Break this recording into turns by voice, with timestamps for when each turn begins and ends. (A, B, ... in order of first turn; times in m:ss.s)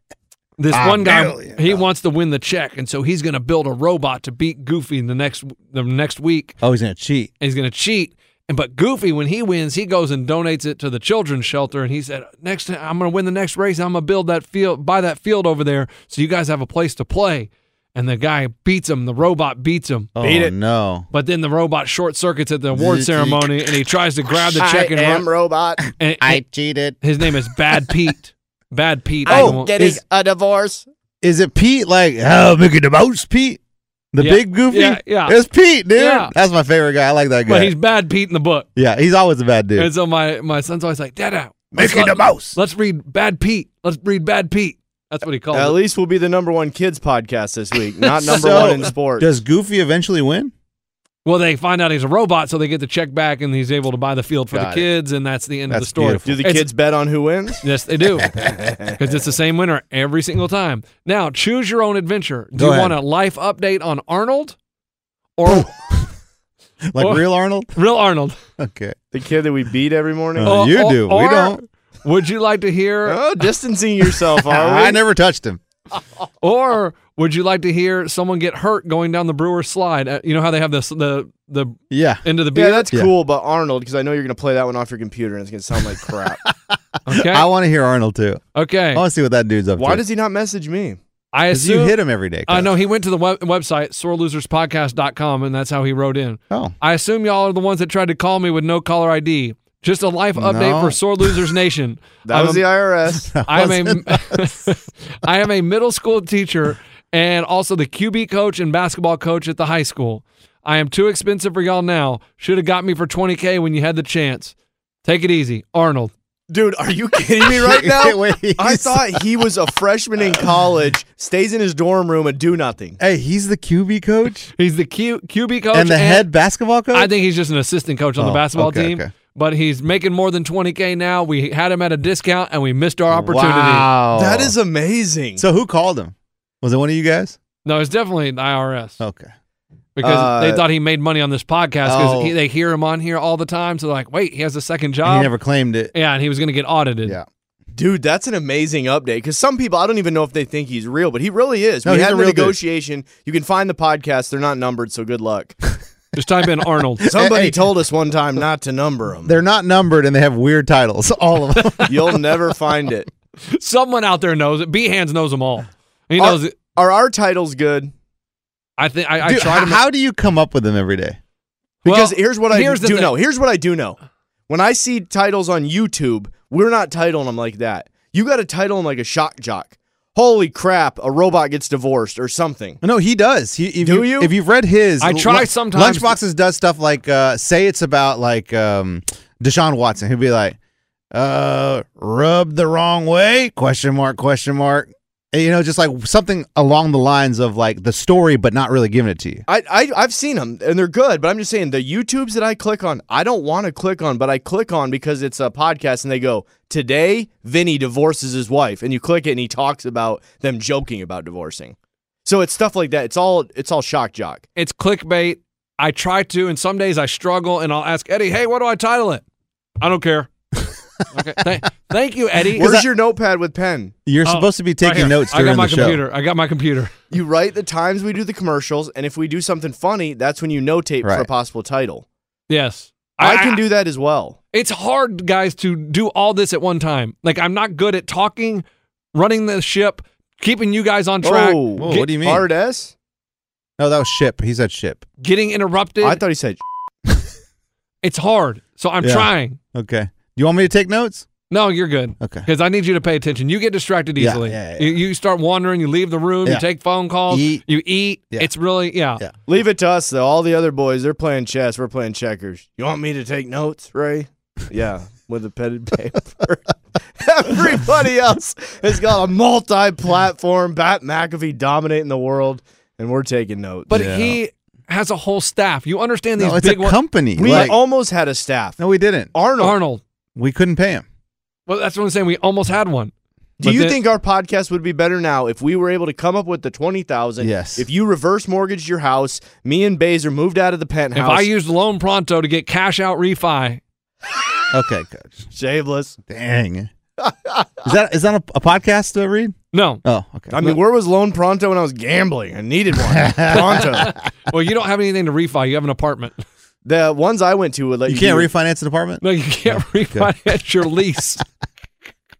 0:00.6-0:06.6 A
0:00.7-0:01.8 B
0:06.6-0:07.3 B
0:07.4-0:20.1 A
0:20.2-0:21.1 B
0:20.2-0:20.5 C
0:21.1-0:25.2 A
0:22.7-0:23.5 B
0:24.6-0:25.8 C
0:26.0-0:26.4 A
0:26.2-0:27.0 B
0:27.0-0:30.0 A
0:29.2-0:30.0 B
0:29.2-0:30.8 C
0:31.2-0:33.6 B
0:34.1-0:37.7 B
0:34.2-0:35.4 A
0:36.0-0:36.3 A
0:37.5-0:38.7 A
0:38.8-0:39.9 B
0:39.8-0:45.8 A
0:41.7-0:42.6 B
0:45.5-0:49.3 C
0:48.2-0:50.5 B
0:48.3-0:48.8 A
0:51.2-0:56.7 A
0:54.5-0:54.9 B
0:55.7-0:56.4 B
0:56.2-0:57.6 C
0:57.6-0:58.3 A
0:58.3-0:58.7 B
0:58.5-0:59.0 C
0:59.0-1:04.6 A
1:02.6-1:03.0 B
1:05.4-1:05.7 A
1:05.4-1:06.1 B
1:06.9-1:07.7 B
1:07.0-1:08.4 A
1:08.6-1:08.9 B
1:09.1-1:10.5 C
1:10.4-1:11.6 B
1:10.4-1:13.2 A
1:13.0-1:15.0 C
1:14.4-1:15.6 B
1:16.4-1:22.8 A
1:21.9-1:22.2 B
1:22.5-1:26.4 C
1:26.5-1:28.4 B
1:27.1-1:27.5 A
1:28.5-1:29.0 A
1:28.9-1:30.0 B
1:29.8-1:31.0 C
1:31.3-1:42.6 A
1:31.5-1:32.7 B
1:36.5-1:36.7 B
1:40.4-1:41.4 B
1:42.2-1:43.3 C
1:43.1-1:44.6 B
1:43.5-1:54.5 A
1:55.0-1:56.1 A
1:56.5-2:03.0 C
1:57.4-1:59.2 B
2:03.0-2:04.5 B
2:04.6-2:06.2 A
2:05.7-2:07.1 B
2:06.9-2:13.9 A
2:08.2-2:09.1 B
2:13.1-2:14.5 B
2:14.1-2:15.4 C
2:15.4-2:17.4 B
2:17.6-2:19.0 A
2:19.0-2:19.3 B
2:20.0-2:25.3 A
2:20.0-2:20.6 C
2:21.8-2:22.3 B
2:25.0-2:25.9 B
2:25.9-2:27.2 A
2:27.7-2:35.6 C
2:31.8-2:32.6 B
2:36.2-2:37.0 A
2:37.0-2:37.6 B
2:37.0-2:39.3 C
2:39.2-2:42.0 B
2:41.9-2:43.1 C
2:43.4-2:46.5 A
2:46.2-2:47.9 C
2:48.8-2:49.8 A
2:49.2-2:51.2 B
2:51.8-2:53.1 A
2:51.8-2:54.0 C
2:54.5-3:02.8 C
3:02.8-3:10.6 B
3:03.8-3:04.3 C
3:05.0-3:06.1 A
3:11.1-3:19.4 B
3:19.5-3:34.4 C
3:34.6-3:39.2 A
3:39.8-3:40.3 A
3:41.1-3:42.7 A
3:42.5-3:42.8 B
3:42.6-3:43.9 C
3:44.0-3:46.0 B
3:44.2-3:46.9 A
3:47.1-3:52.0 C
3:52.5-3:53.6 A
3:53.2-3:54.4 C
3:54.5-4:02.0 A
4:01.2-4:02.9 C
4:01.8-4:02.4 B
4:03.8-4:05.0 B
4:05.2-4:06.2 A
4:06.0-4:06.6 C
4:08.0-4:09.6 A
4:09.0-4:11.3 B
4:11.5-4:19.2 A
4:12.2-4:12.5 B
4:14.2-4:15.0 B
4:17.3-4:17.6 B
4:19.5-4:26.6 C
4:27.2-4:34.0 C
4:33.9-4:37.0 A
4:33.9-4:34.4 B
4:36.4-4:37.8 B
4:37.4-4:38.8 C
4:38.8-4:39.3 B
4:39.3-4:39.8 C
4:39.6-4:40.0 A
4:40.4-4:41.0 B
4:41.7-4:44.0 A
4:43.6-4:51.5 C
4:47.4-4:47.8 B
4:51.1-4:53.8 A
4:54.7-4:55.5 B
4:55.5-4:56.2 C
4:56.3-4:56.9 B
4:57.8-5:00.6 B
4:59.7-5:00.0 A
5:00.5-5:04.1 C
5:03.0-5:04.2 B
5:03.5-5:06.4 A
5:06.8-5:08.5 C
5:08.0-5:10.3 B
5:09.2-5:11.4 A